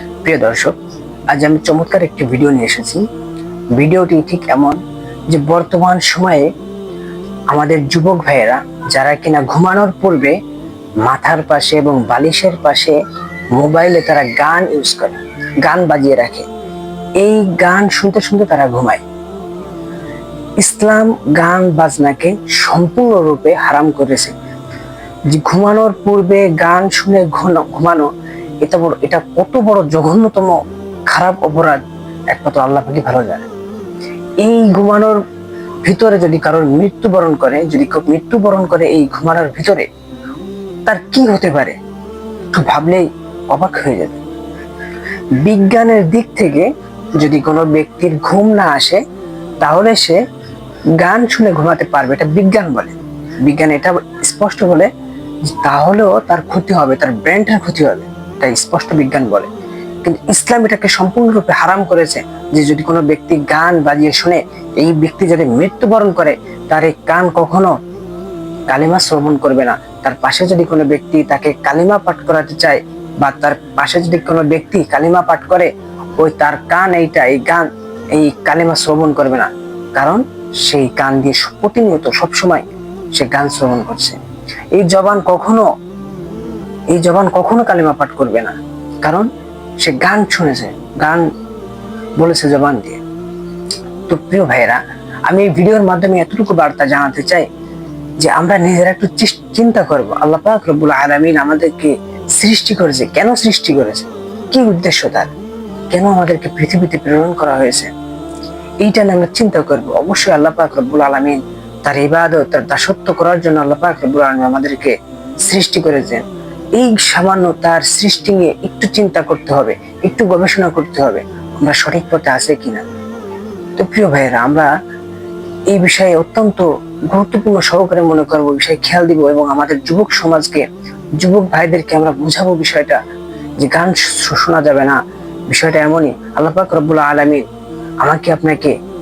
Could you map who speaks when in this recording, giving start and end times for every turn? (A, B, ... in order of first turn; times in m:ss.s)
0:00.2-0:00.7 A
0:01.3-0:03.0 A
0:03.8-0:04.8 A
0:05.3-0:06.5 A
0:07.5-0:10.4 A
0:11.0-0:13.0 A
0:13.6-0:16.5 A
0:17.2-0:19.0 A
0:20.6-0:24.3 A
0:25.3-0:28.1 A
0:28.6-0:30.6 A
0:31.1-0:31.8 A
0:32.3-0:33.5 A
0:34.4-0:35.2 A
0:35.8-0:39.9 A
0:40.9-0:41.8 A
0:42.5-0:44.2 A
0:45.4-0:49.0 A
0:49.6-0:50.2 A
0:51.0-0:54.9 A
0:55.5-0:59.5 A
1:00.0-1:07.7 A
1:08.7-1:22.6 A
1:23.2-1:24.2 A
1:24.8-1:25.6 A
1:26.9-1:29.3 A
1:29.8-1:31.3 A
1:32.2-1:33.0 A
1:34.1-1:37.5 A
1:38.2-1:45.3 A
1:45.9-1:47.9 A
1:48.8-1:54.9 A
1:55.5-1:56.2 A
1:56.8-2:02.8 A
2:03.8-2:04.7 A
2:05.7-2:10.7 A
2:11.2-2:13.0 A
2:13.6-2:17.4 A
2:18.0-2:18.8 A